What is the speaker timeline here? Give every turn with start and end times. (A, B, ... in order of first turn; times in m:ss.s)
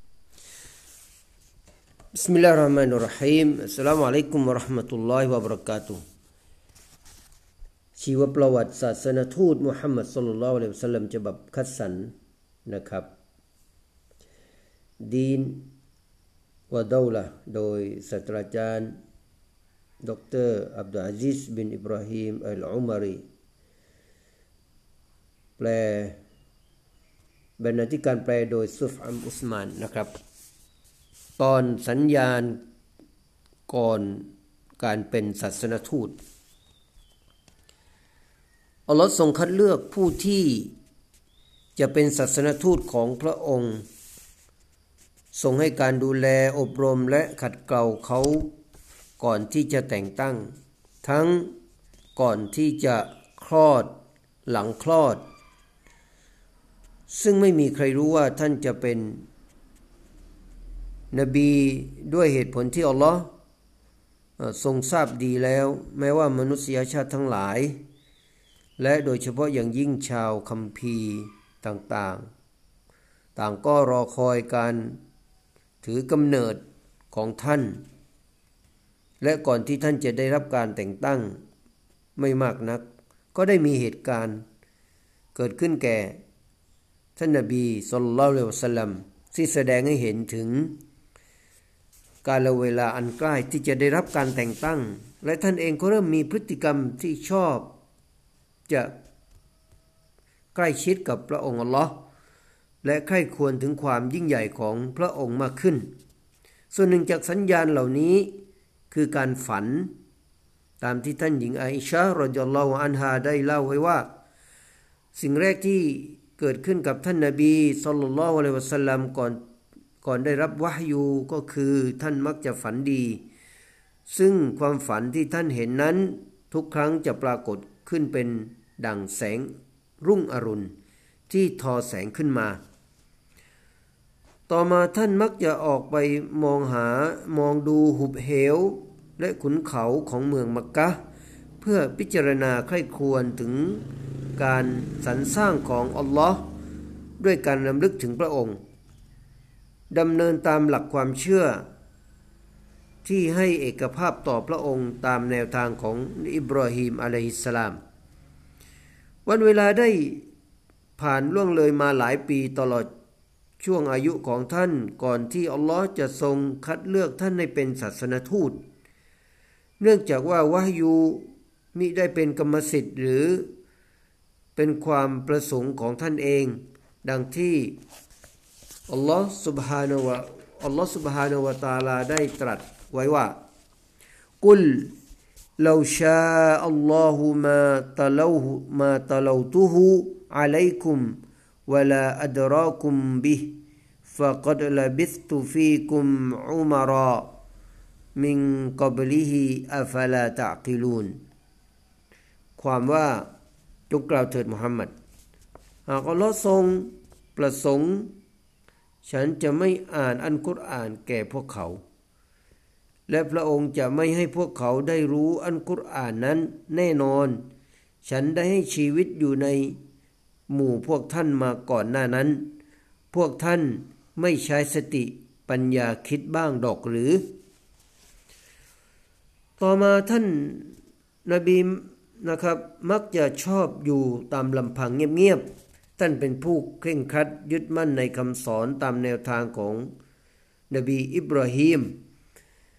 0:02.1-0:06.0 A
0:08.0-0:12.1 A
0:12.7-0:13.1 A
0:15.0-0:15.7 A
0:16.7-0:19.0 A
0:20.0-0:23.2 A
0:25.6-0:26.2 A
0:27.6-0:30.1 A
0:31.4-0:32.6 A
0:33.7-0:36.2 A
0:38.9-0:40.7 A
0:41.8-0:43.8 A
0:45.3-0:48.5 A
0:49.2-0:50.5 A
0:51.0-0:51.5 A
0:52.2-0:53.9 A
0:54.5-0:55.2 A
0:57.1-0:59.3 A
1:01.1-1:03.3 A
1:04.4-1:07.8 A
1:08.8-1:12.3 A
1:13.4-1:15.0 A
1:15.8-1:16.6 A
1:17.1-1:17.8 A
1:19.2-1:21.4 A
1:22.2-1:24.4 A
1:25.4-1:26.2 A
1:27.2-1:30.8 A
1:32.2-1:37.7 A
1:40.6-1:42.0 A
1:42.8-1:45.9 A
1:46.7-1:48.4 A
1:48.9-1:49.9 A
1:50.8-1:54.1 A
1:55.2-1:59.4 A
2:00.0-2:03.2 A
2:04.1-2:09.5 A
2:10.0-2:10.7 A
2:11.3-2:12.6 A
2:14.5-2:21.0 A
2:21.6-2:23.8 A
2:24.4-2:26.4 A
2:27.2-2:28.6 A
2:29.9-2:31.6 A
2:33.0-2:37.8 A
2:39.3-2:40.3 A
2:41.0-2:42.9 A
2:43.6-2:48.6 A
2:49.8-2:53.5 A
2:54.6-2:57.8 A
2:58.9-3:03.4 A
3:04.4-3:04.9 A
3:05.6-3:17.3 A
3:18.2-3:21.2 A
3:22.6-3:23.3 A
3:23.9-3:24.9 A
3:25.9-3:28.1 A
3:29.0-3:31.8 A
3:33.1-3:37.4 A
3:38.0-3:39.8 A
3:40.5-3:42.5 A
3:43.1-3:47.2 A
3:49.6-3:55.4 A
3:56.0-3:59.9 A
4:00.7-4:02.0 A